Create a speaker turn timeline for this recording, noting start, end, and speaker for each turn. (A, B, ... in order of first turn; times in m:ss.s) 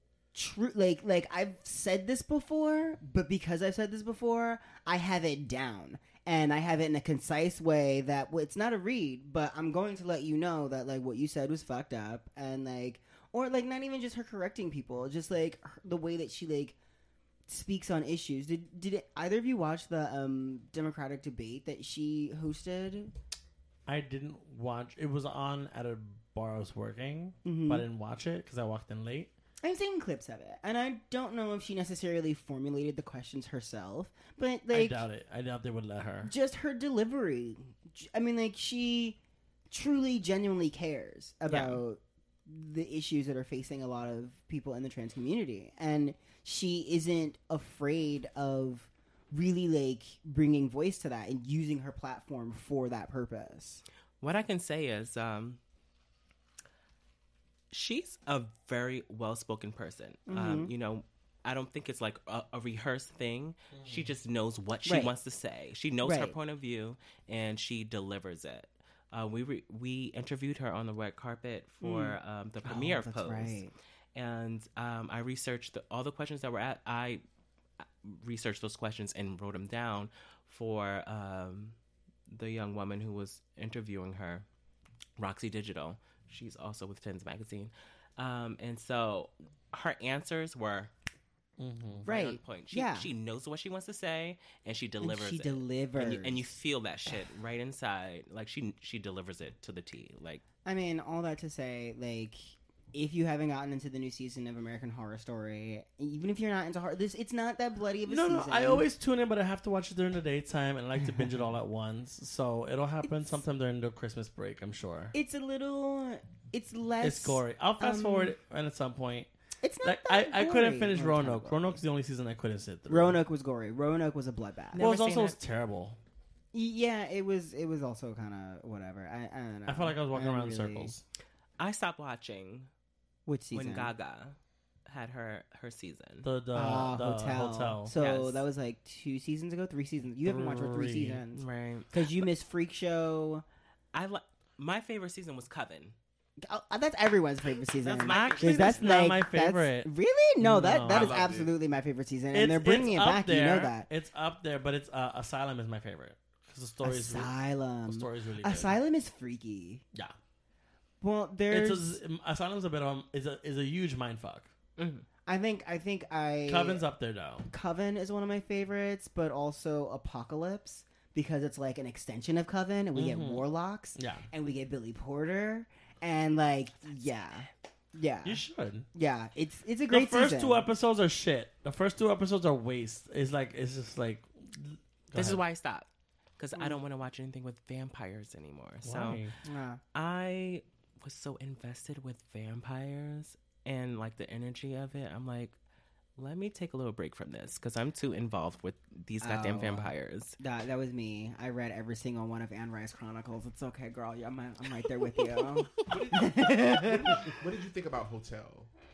0:00.3-0:16.8 A
0:17.5-0:23.1 A
0:23.9-0:29.3 B
0:27.4-0:27.9 A
0:29.6-0:35.0 A
0:34.7-0:36.3 B
0:36.2-0:39.2 A
0:39.7-0:53.8 A
0:41.5-0:41.8 C
0:54.2-0:55.6 C
0:57.7-1:13.6 C
1:00.3-1:00.7 A
1:03.7-1:04.1 B
1:04.8-1:05.1 A
1:06.0-1:06.4 A
1:11.8-1:13.7 A
1:14.1-1:17.2 C
1:17.8-1:21.8 C
1:22.3-1:24.4 C
1:25.2-1:30.9 C
1:31.6-1:32.0 B
1:32.0-1:33.1 A
1:32.0-1:40.4 C
1:35.0-1:36.5 A
1:40.6-1:48.9 A
1:48.1-1:55.1 B
1:55.1-1:58.3 A
1:57.0-1:59.3 B
1:59.6-2:01.8 A
1:59.8-2:03.2 B
2:02.9-2:04.8 A
2:04.7-2:05.4 C
2:04.8-2:06.0 B
2:06.5-2:10.9 A
2:09.7-2:11.0 B
2:11.6-2:12.7 C
2:13.2-2:13.9 A
2:13.5-2:16.3 C
2:16.2-2:17.9 B
2:16.5-2:23.4 A
2:18.0-2:18.4 C
2:20.2-2:21.2 B
2:21.3-2:21.9 C
2:23.9-2:26.0 C
2:26.4-2:33.9 A
2:27.8-2:29.0 C
2:28.0-2:31.2 B
2:30.9-2:31.5 D
2:32.3-2:37.3 B
2:36.8-2:39.8 A
2:37.8-2:38.8 B
2:41.0-2:42.0 A
2:41.5-2:44.5 B
2:44.8-2:45.0 C
2:45.2-2:46.8 A
2:46.5-2:47.5 B
2:47.5-2:58.4 A
2:52.9-2:54.2 B
2:58.2-2:58.9 B
2:58.9-3:00.6 A
2:59.9-3:05.4 B
3:05.1-3:09.2 C
3:08.8-3:09.3 B
3:09.4-3:09.8 A
3:09.9-3:15.6 C
3:16.2-3:20.4 C
3:19.2-3:27.2 A
3:25.9-3:28.7 D